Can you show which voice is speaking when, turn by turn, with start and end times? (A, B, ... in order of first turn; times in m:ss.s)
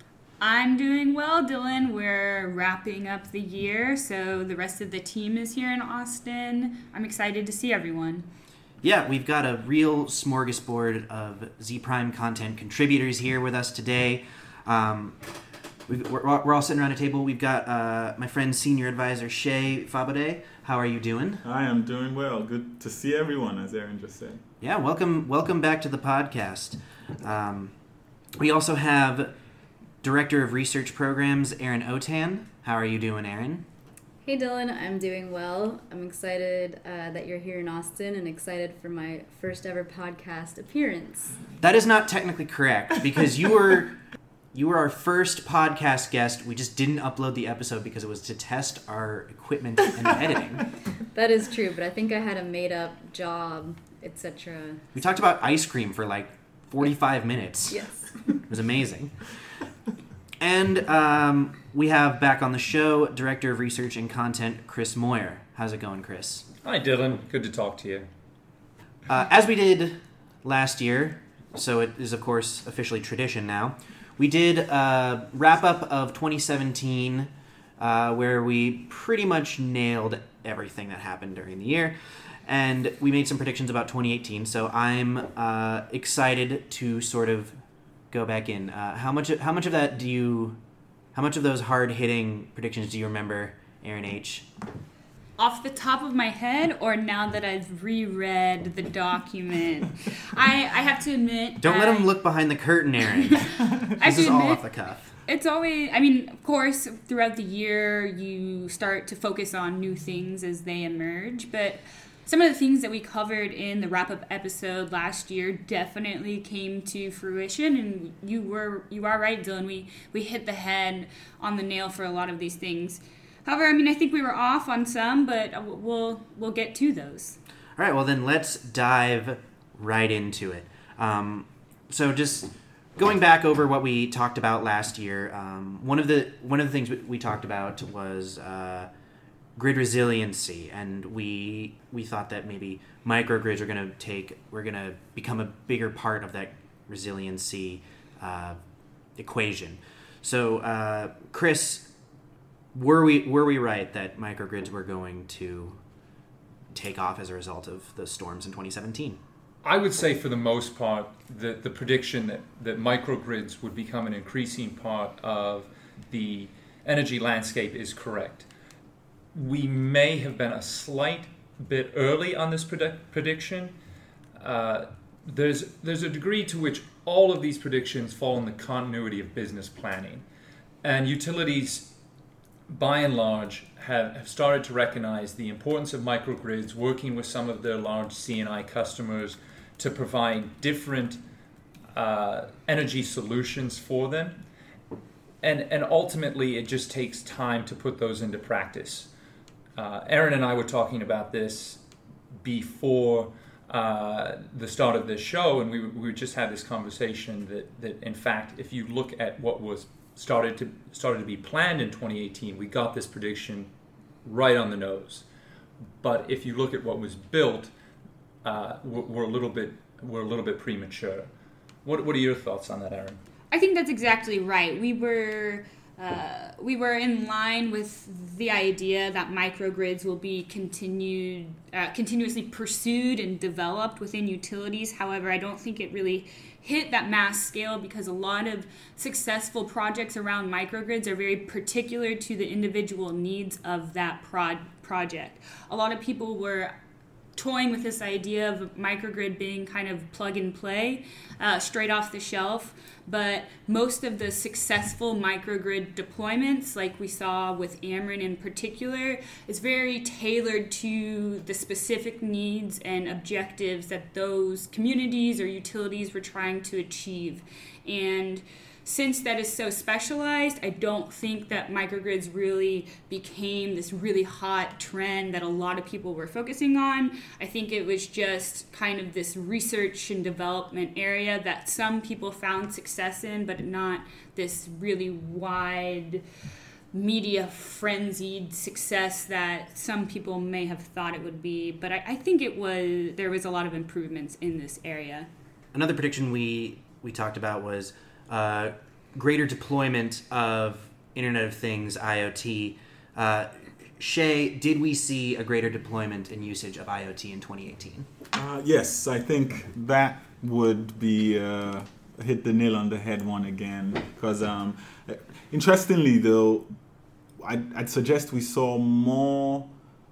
0:00.4-0:08.3 A
0:08.8-0:15.2 B
0:15.9-0:21.4 B
0:21.4-0:24.4 C
0:24.6-0:27.7 B
0:28.4-0:29.3 B
0:30.0-0:33.7 B
0:34.2-0:41.4 D
0:41.6-0:44.0 B
0:44.5-0:50.7 B
0:51.1-0:54.8 D
0:54.9-0:57.9 B
0:57.7-0:58.1 D
0:58.5-0:59.2 B
1:00.4-1:06.5 B
1:06.6-1:08.1 E
1:09.1-1:27.6 B
1:28.1-1:30.6 B
1:31.1-1:34.5 B
1:35.4-1:42.1 A
1:41.6-1:45.2 B
1:44.0-1:44.6 A
1:45.2-2:07.4 A
2:07.8-2:18.9 B
2:19.6-2:28.6 B
2:29.2-2:31.9 B
2:32.7-2:35.8 B
2:36.7-2:39.2 B
2:39.6-2:48.5 E
2:49.3-2:53.8 E
2:54.4-3:00.2 E
3:00.8-3:01.9 E
3:02.7-3:11.2 E
3:11.9-3:14.4 E
3:15.4-3:19.1 E
3:19.8-3:21.8 E
3:22.4-3:33.7 E
3:34.2-3:35.2 E
3:36.0-3:37.7 E
3:38.4-3:41.3 E
3:41.8-3:43.2 E
3:43.5-4:06.7 A
4:07.4-4:46.2 A
4:46.9-4:55.3 A
4:55.7-5:08.1 B
5:08.3-5:16.7 C
5:17.4-5:19.7 C